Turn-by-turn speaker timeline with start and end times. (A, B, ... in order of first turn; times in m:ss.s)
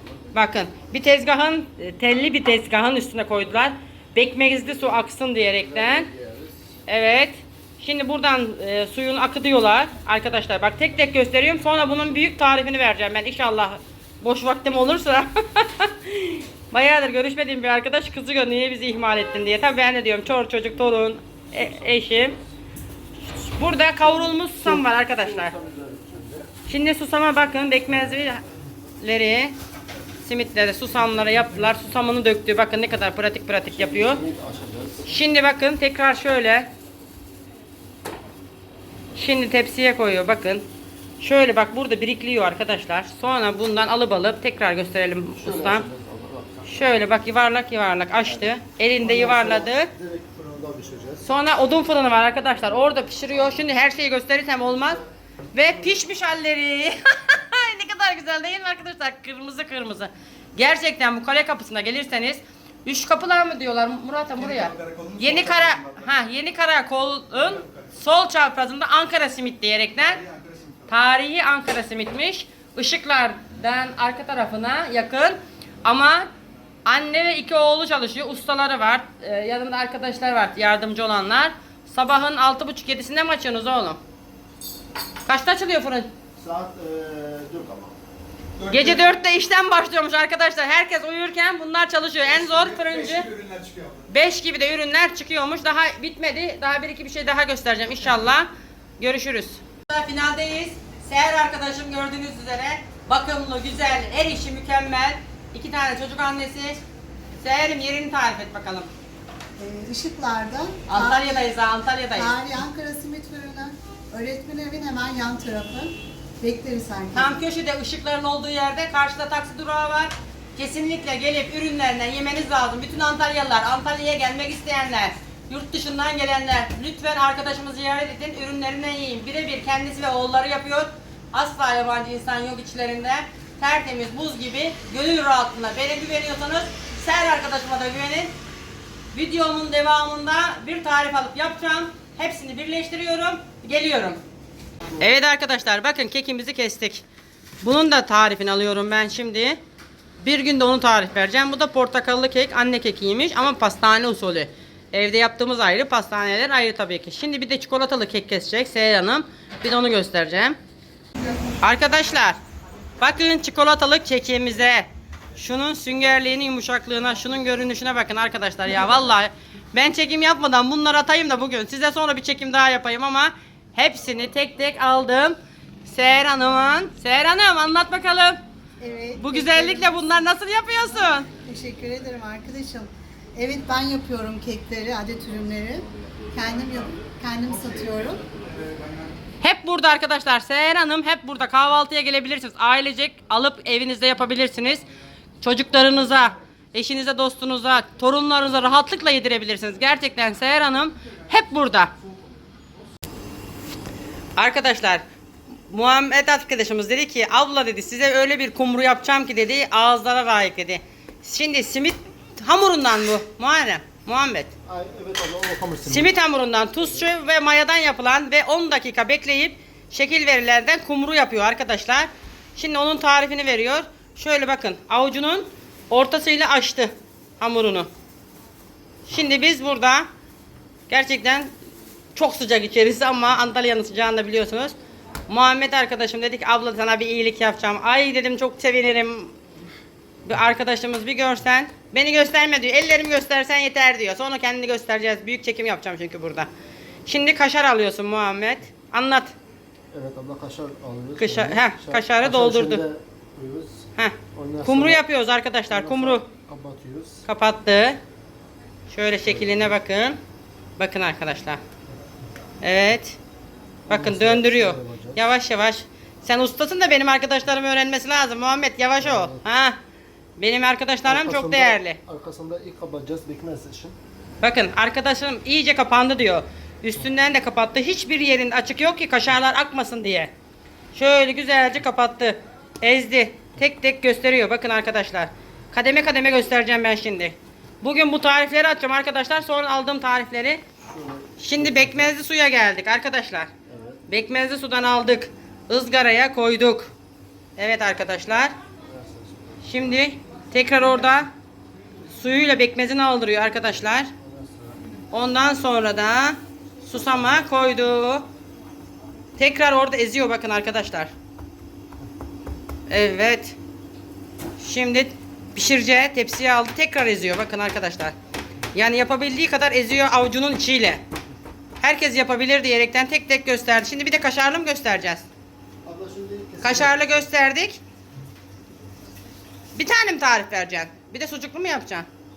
0:00.3-0:06.1 A
0:05.4-0:06.6 B
0:06.9-0:22.4 A
0:21.6-0:22.4 B
0:23.3-0:25.5 A
0:24.0-0:26.5 B
0:26.7-0:28.4 A
0:29.0-0:29.6 A
0:30.2-0:34.2 A
0:33.7-0:35.0 B
0:35.1-0:36.7 A
0:39.2-0:40.6 A
0:41.2-0:45.9 A
0:45.4-0:46.8 B
0:46.7-0:49.9 A
0:48.2-0:51.2 B
0:51.2-0:55.0 A
0:55.5-1:10.2 A
1:04.4-1:06.1 C
1:07.4-1:07.9 C
1:10.0-1:10.9 C
1:10.9-1:16.3 A
1:16.8-1:24.0 A
1:25.3-1:26.1 A
1:26.4-1:28.0 B
1:28.6-1:29.0 C
1:28.7-1:33.3 A
1:32.2-1:34.1 C
1:34.1-1:46.8 A
1:47.4-1:48.9 A
1:49.6-1:51.3 D
1:50.9-1:52.3 A
1:52.2-1:57.4 D
1:57.1-2:18.3 A
2:19.1-2:24.2 A
2:25.0-2:27.0 A
2:27.6-2:29.6 A
2:30.2-2:40.6 A
2:41.6-2:42.4 A
2:43.0-2:58.4 A
2:58.8-2:59.9 D
2:59.2-3:01.3 A
3:01.4-3:08.2 D
3:08.6-3:09.1 C
3:09.4-3:14.9 A
3:15.4-3:21.9 A
3:24.4-3:25.0 A
3:25.7-3:34.5 A
3:34.7-3:36.1 B
3:35.8-3:47.9 A
3:49.1-3:50.1 A
3:50.9-3:51.5 A
3:52.2-3:54.8 A
3:55.3-3:59.3 A
4:00.3-4:06.5 A
4:07.1-4:09.3 A
4:09.9-4:15.0 B
4:11.2-4:12.8 A
4:14.0-4:16.3 A
4:15.7-4:17.2 B
4:17.3-4:18.0 A
4:18.9-4:20.2 A
4:20.8-4:21.6 A
4:22.6-4:23.2 A
4:23.9-4:25.2 B
4:23.9-4:29.8 A
4:29.0-4:29.4 B
4:30.4-4:32.0 A
4:31.1-4:34.0 B
4:34.4-4:40.3 A
4:40.9-4:50.6 A
4:50.8-4:52.1 B
4:51.4-4:53.5 A
4:53.7-4:54.0 B
4:54.1-4:56.9 A
4:57.6-4:58.5 A
4:58.9-5:00.0 B
4:59.6-5:01.3 A
5:02.1-5:04.1 A
5:04.2-5:04.8 B
5:05.1-5:08.3 A
5:09.4-5:11.1 A
5:12.9-5:13.6 A
5:14.6-5:18.1 A
5:18.7-5:21.0 A
5:21.8-5:25.2 A
5:25.8-5:27.3 B
5:26.6-5:27.8 A
5:29.8-5:32.1 A